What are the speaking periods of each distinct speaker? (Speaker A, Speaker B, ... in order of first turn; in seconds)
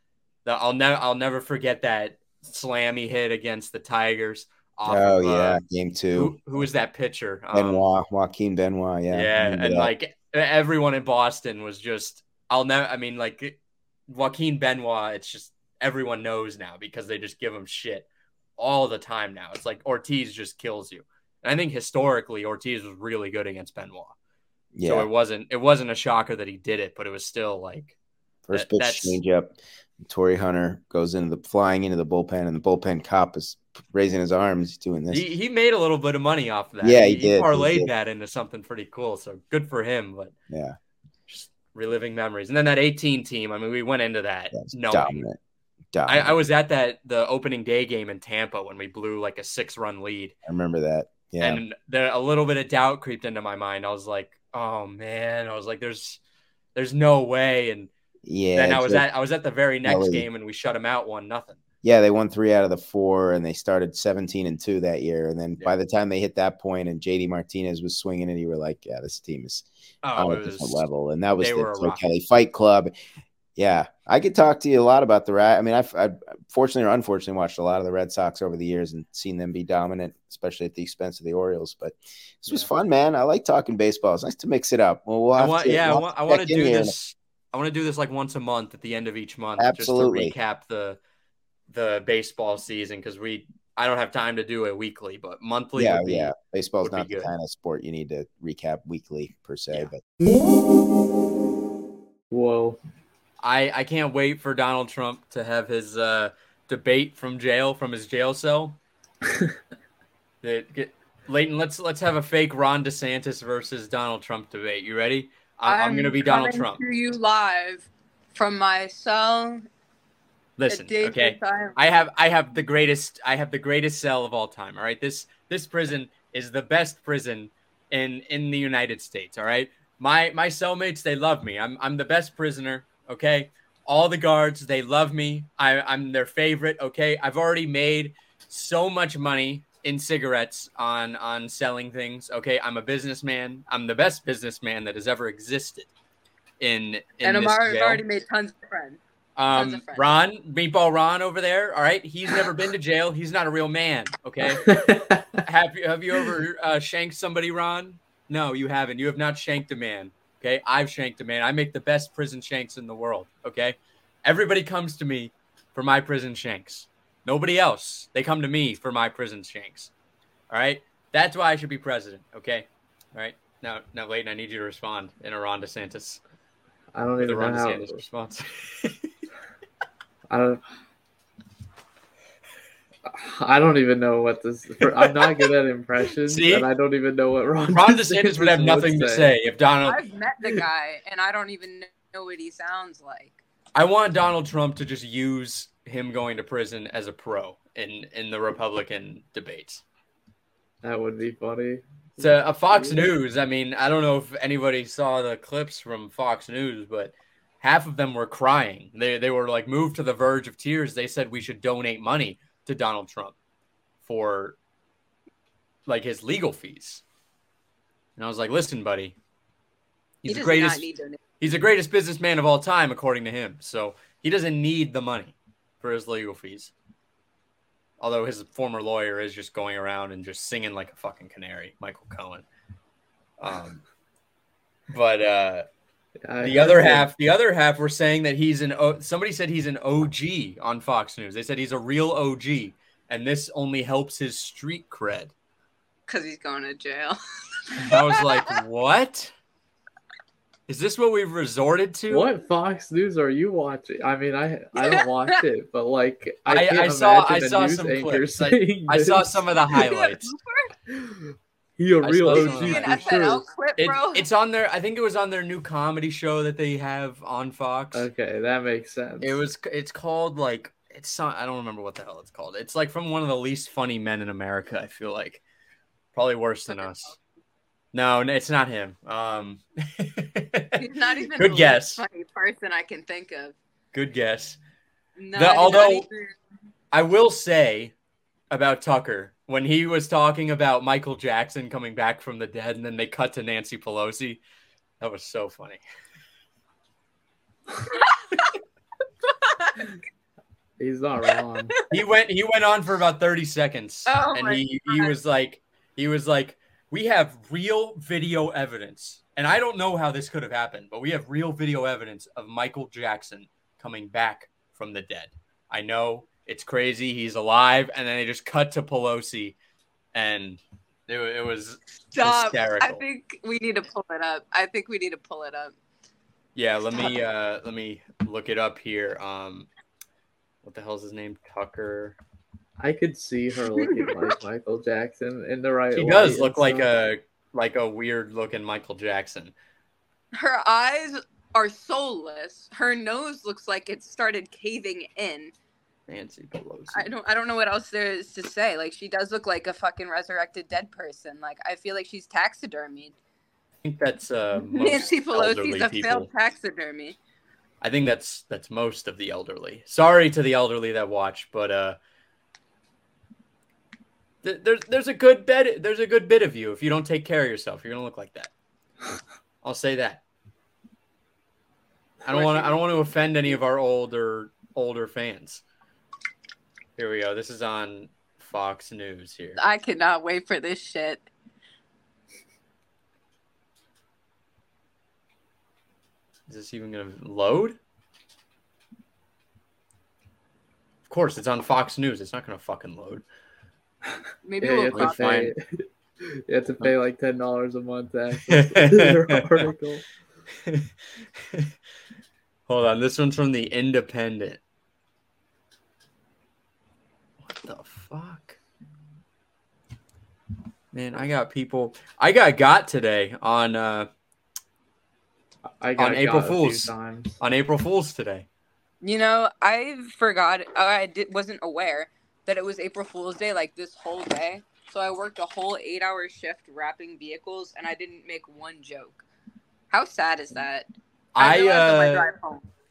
Speaker A: 0.4-5.6, 6.1-7.8, 9.1-13.6, 14.1-18.1, 18.6-24.1, 24.8-27.9, 28.5-29.2, 35.1-40.3, 41.3-45.2, 46.0-50.3, 51.4-56.2, 56.7-57.9, 58.5-61.6, 70.0-70.9, 71.4-72.0, 85.3-91.0, 91.7-97.3, 103.4-108.8, 110.4-116.8, 120.6-145.9, 146.6-148.0, 149.3-154.8, 155.4-169.9, 170.5-176.2, 177.2-179.1, 184.8-185.5, 186.2-186.7, 187.7-190.0, 193.7-199.8, 202.2-213.3, 214.0-214.6, 215.9-217.0, 218.2-219.1, 220.2-220.9, 221.4-226.7, 228.0-232.4, 233.4-233.8, 234.9-235.7, 236.4-245.3, 247.8-249.3, 250.7-252.3, 256.5-260.3, 262.0-263.1, 263.8-268.1, 269.2-275.4, 276.1-277.1, 277.9-280.8, 281.3-282.0, 283.9-284.6, 285.3-286.1, 286.9-287.9, 288.5-294.4, 295.0-295.8, 301.9-319.6, 320.1-323.0, 326.5-329.7, 330.6-332.2, 335.9-339.5, 346.1-347.1, 353.8-356.3, 357.8-362.0, 364.4-368.5, 369.6-370.2, 372.2-375.6, 376.9-379.6, 386.5-387.8, 391.1-393.2, 394.9-395.5, 398.5-399.6, 402.7-404.6, 407.4-408.6, 410.9-414.1, 416.0-418.4, 431.3-432.3
Speaker B: 4.8-6.7, 7.5-9.9, 24.7-25.1, 28.5-35.2, 36.8-37.9, 40.5-40.8, 44.5-45.4, 45.9-46.4, 50.4-51.6, 58.2-59.0, 59.8-60.2, 61.8-72.9, 73.5-87.0, 89.6-90.3, 95.7-100.0
Speaker C: 102.3-102.8, 154.6-155.4, 176.9-178.0, 180.3-180.6, 183.1-189.3, 200.8-203.1, 236.2-237.1, 252.1-259.5, 260.9-263.5, 267.9-269.4, 300.8-301.7, 332.8-336.9, 394.6-400.1, 415.8-417.4
Speaker D: 115.7-119.7, 120.7-121.8, 147.2-149.0, 149.5-150.1, 189.8-193.4, 220.3-221.2, 246.1-247.2, 247.7-248.4, 259.7-260.7, 262.3-264.2, 280.8-283.6, 285.2-286.3, 299.5-299.9, 304.1-305.1, 322.1-325.7, 333.7-334.2, 340.4-345.5, 346.9-353.1, 354.8-357.2, 372.3-372.8, 379.6-381.2, 394.4-395.3, 419.0-429.2, 429.9-430.9, 431.4-432.6